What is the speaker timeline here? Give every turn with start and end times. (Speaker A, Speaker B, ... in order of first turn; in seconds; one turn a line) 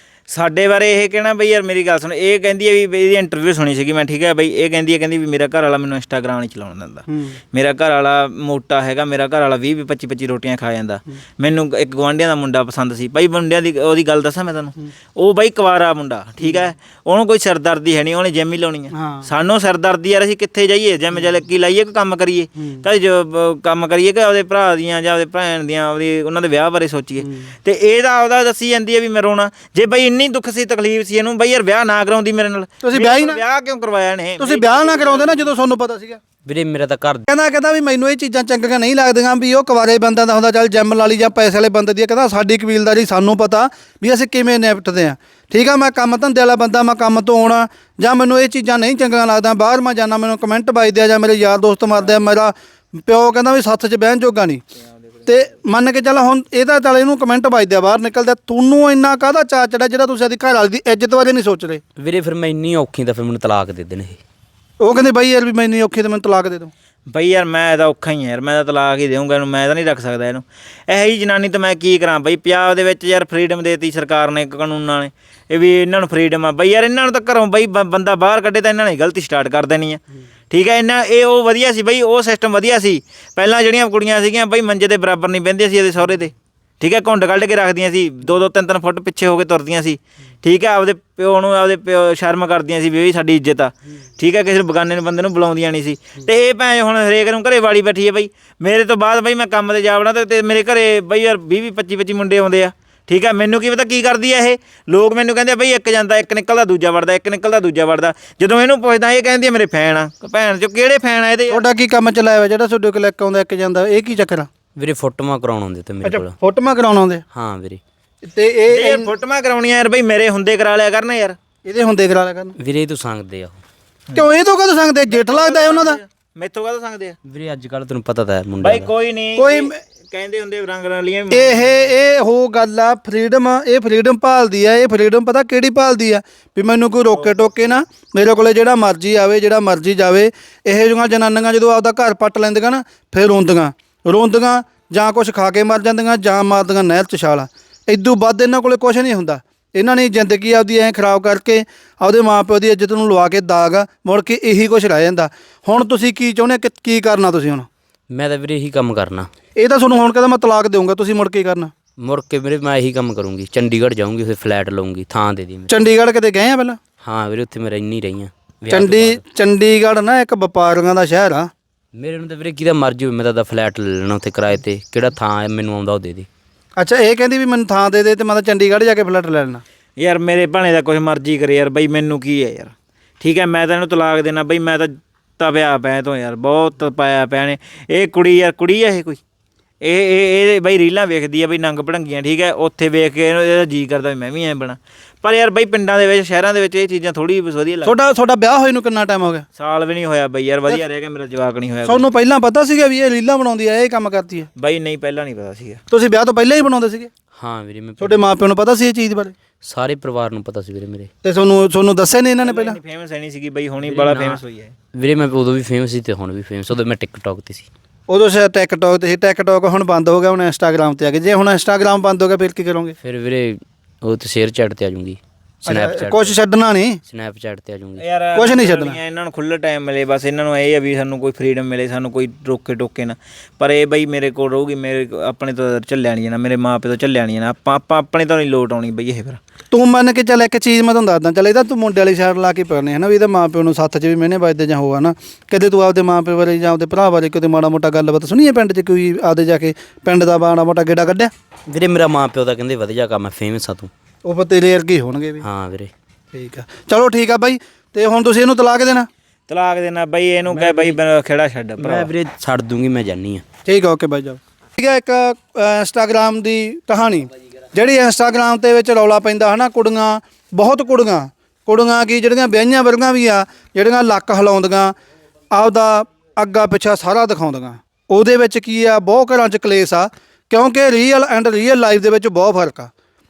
Speaker A: 0.3-35.5
Speaker B: 7.1-7.3
Speaker B: 18.9-19.3
Speaker B: 27.2-27.5
Speaker B: 32.8-33.4
Speaker B: 34.4-36.2
Speaker C: 36.5-37.2
Speaker B: 37.3-54.6
Speaker B: 55.2-61.8
Speaker C: 62.0-64.2
Speaker B: 64.8-66.7
Speaker A: 67.1-111.6
Speaker B: 111.5-114.5
Speaker C: 114.8-116.3
Speaker B: 116.0-117.2
Speaker C: 117.3-117.8
Speaker B: 118.2-119.1
Speaker A: 118.7-121.4
Speaker B: 121.6-122.5
Speaker C: 122.6-123.6
Speaker B: 124.1-126.0
Speaker A: 125.1-127.2
Speaker C: 127.2-128.9
Speaker A: 128.6-131.8
Speaker B: 129.3-129.8
Speaker B: 131.3-157.7
Speaker C: 158.1-159.3
Speaker B: 159.6-161.7
Speaker C: 162.0-165.8
Speaker B: 165.7-166.8
Speaker C: 167.0-169.2
Speaker B: 168.7-171.5
Speaker C: 171.9-176.3
Speaker B: 176.8-179.6
Speaker A: 180.0-189.2
Speaker A: 189.8-197.9
Speaker B: 197.8-199.4
Speaker A: 199.6-202.1
Speaker B: 201.8-204.5
Speaker A: 204.6-205.8
Speaker B: 205.9-207.1
Speaker C: 207.3-208.3
Speaker B: 208.0-209.3
Speaker C: 209.6-211.1
Speaker B: 211.2-212.8
Speaker A: 212.4-214.7
Speaker C: 213.8-214.4
Speaker C: 214.9-217.7
Speaker B: 218.1-222.9
Speaker C: 223.0-226.4
Speaker B: 225.7-227.0
Speaker C: 227.1-228.0
Speaker A: 228.0-239.4
Speaker B: 228.3-229.0
Speaker B: 239.7-251.3
Speaker C: 251.7-253.9
Speaker B: 254.2-255.4
Speaker C: 255.4-255.9
Speaker B: 256.3-259.1
Speaker A: 259.5-262.1
Speaker C: 260.5-261.0
Speaker C: 261.8-263.4
Speaker B: 263.6-274.9
Speaker B: 275.5-282.9